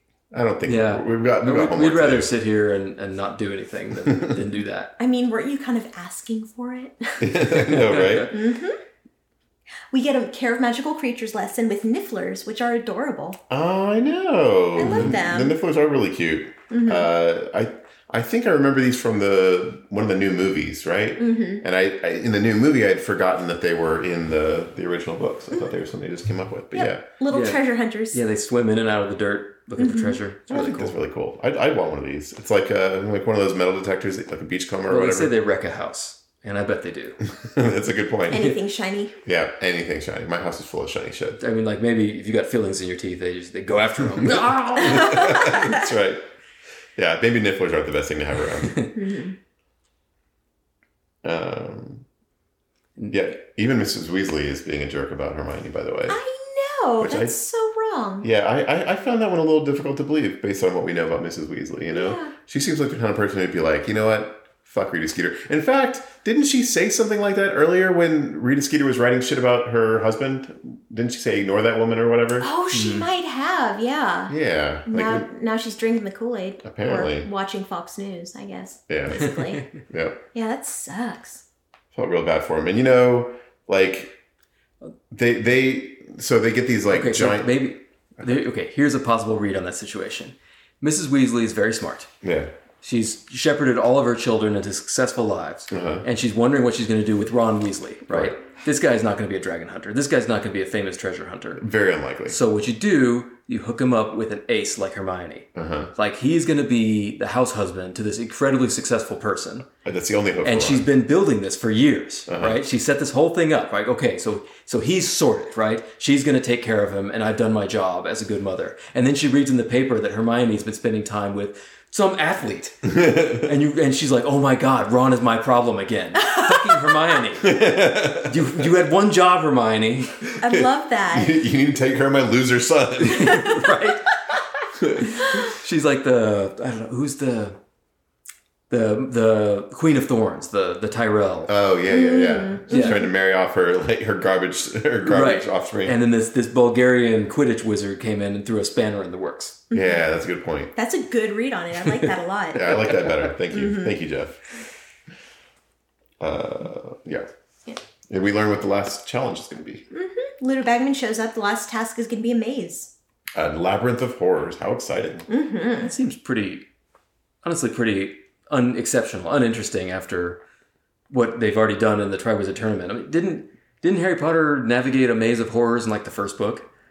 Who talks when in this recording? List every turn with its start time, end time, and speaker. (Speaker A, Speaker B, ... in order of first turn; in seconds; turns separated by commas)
Speaker A: 0.3-2.3, Speaker B: 0.7-4.9, Speaker A: 4.1-4.4, Speaker C: 5.0-7.3, Speaker A: 7.2-8.3, Speaker B: 7.6-8.3, Speaker C: 8.3-8.8, Speaker C: 9.9-13.4, Speaker A: 13.5-27.0, Speaker C: 14.8-15.6, Speaker B: 14.9-15.1, Speaker C: 16.7-17.1, Speaker C: 21.2-21.6, Speaker C: 26.7-28.2, Speaker B: 27.3-30.9, Speaker C: 29.8-30.2, Speaker A: 30.5-35.3, Speaker B: 34.9-37.2, Speaker A: 37.4-38.5, Speaker C: 38.3-39.2, Speaker A: 39.2-41.4, Speaker B: 41.4-45.6, Speaker A: 44.2-46.2, Speaker C: 44.8-45.8, Speaker A: 47.0-48.8, Speaker C: 48.9-49.4, Speaker A: 51.2-52.0, Speaker A: 53.1-56.2, Speaker C: 56.1-58.3, Speaker A: 57.0-57.4, Speaker A: 58.2-72.5, Speaker C: 61.9-62.3, Speaker C: 72.4-79.7, Speaker B: 72.7-73.1, Speaker A: 74.3-75.3, Speaker A: 76.6-77.3, Speaker A: 78.9-80.2, Speaker C: 80.3-81.5, Speaker A: 81.9-84.2, Speaker A: 85.1-87.6, Speaker B: 86.9-92.1, Speaker A: 92.2-92.5, Speaker B: 92.8-101.6, Speaker A: 95.7-96.0, Speaker A: 98.1-98.3, Speaker A: 101.6-102.4, Speaker B: 102.3-109.7, Speaker A: 105.6-105.9, Speaker A: 109.8-110.9, Speaker B: 110.4-130.2, Speaker A: 112.3-112.6, Speaker A: 122.9-123.5, Speaker C: 126.2-126.9, Speaker A: 127.4-128.5, Speaker C: 130.4-131.4, Speaker A: 130.5-133.4, Speaker B: 133.0-134.1, Speaker C: 133.2-133.5, Speaker A: 134.8-135.1, Speaker B: 135.0-137.6, Speaker B: 138.7-141.5, Speaker A: 141.5-146.0, Speaker C: 141.9-143.1, Speaker B: 142.7-143.0, Speaker B: 145.1-149.6, Speaker C: 149.7-150.0, Speaker A: 149.7-150.7, Speaker C: 150.8-152.7, Speaker A: 152.6-154.4, Speaker B: 152.7-153.2, Speaker C: 153.5-154.0, Speaker A: 156.2-157.3, Speaker A: 158.1-159.9, Speaker C: 159.9-162.9, Speaker A: 163.3-165.3, Speaker C: 165.3-165.9, Speaker B: 165.8-166.7, Speaker B: 167.4-170.4, Speaker B: 171.1-176.7